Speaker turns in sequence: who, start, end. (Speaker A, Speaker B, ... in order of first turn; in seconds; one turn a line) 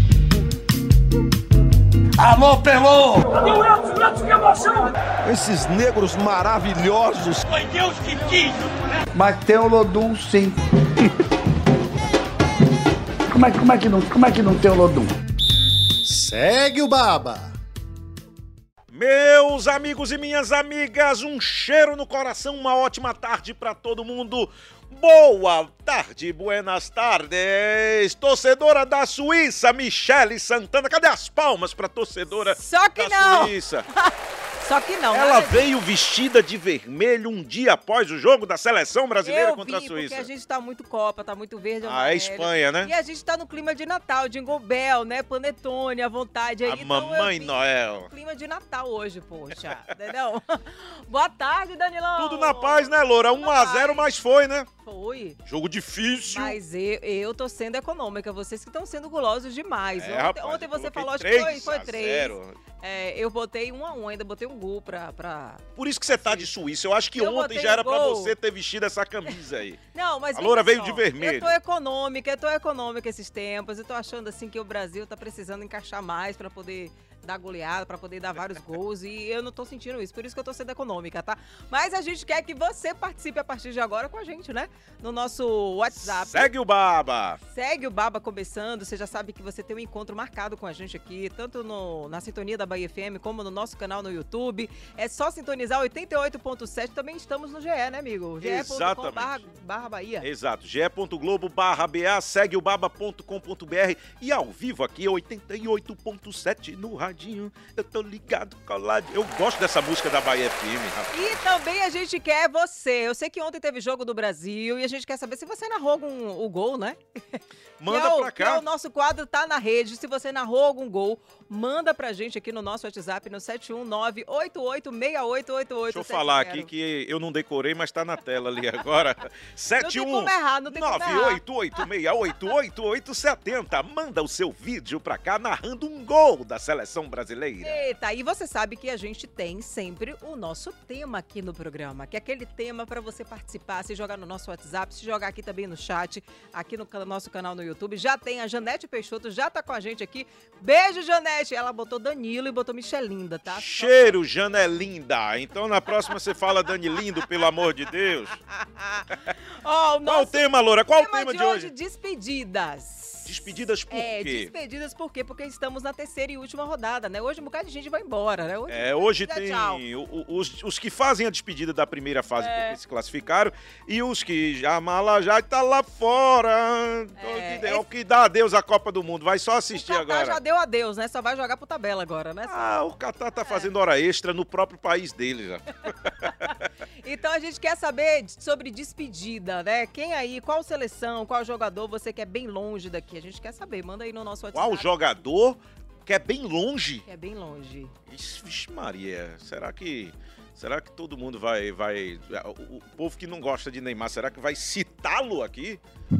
Speaker A: 2.2-4.9
Speaker B: 5.2-7.4
Speaker A: 7.4-9.0
Speaker C: 9.1-11.1
Speaker C: 13.3-15.1
Speaker C: 16.0-17.5
Speaker D: 18.9-33.9
Speaker E: 32.4-35.7
Speaker D: 35.1-40.3
Speaker E: 39.2-54.1
Speaker D: 41.8-42.9
Speaker D: 46.6-48.1
Speaker D: 52.2-54.7
Speaker E: 54.8-55.4
Speaker D: 55.4-56.6
Speaker E: 56.3-66.5
Speaker D: 60.0-62.6
Speaker D: 65.8-69.8
Speaker E: 67.1-68.3
Speaker E: 69.9-86.5
Speaker D: 70.3-71.6
Speaker D: 85.9-87.4
Speaker E: 87.5-100.3
Speaker D: 98.4-99.4
Speaker D: 100.2-111.4
Speaker E: 111.1-126.7
Speaker D: 117.8-118.6
Speaker D: 125.9-137.9
Speaker E: 129.8-131.4
Speaker E: 137.6-154.2
Speaker D: 153.5-158.4
Speaker E: 158.6-169.8
Speaker D: 160.0-161.7
Speaker D: 163.2-164.5
Speaker D: 168.7-180.4
Speaker E: 172.4-172.8
Speaker E: 177.2-177.8
Speaker E: 179.7-182.7
Speaker D: 182.5-186.3
Speaker E: 183.4-183.7
Speaker E: 186.2-194.9
Speaker D: 194.5-197.1
Speaker E: 197.1-197.9
Speaker D: 198.1-205.8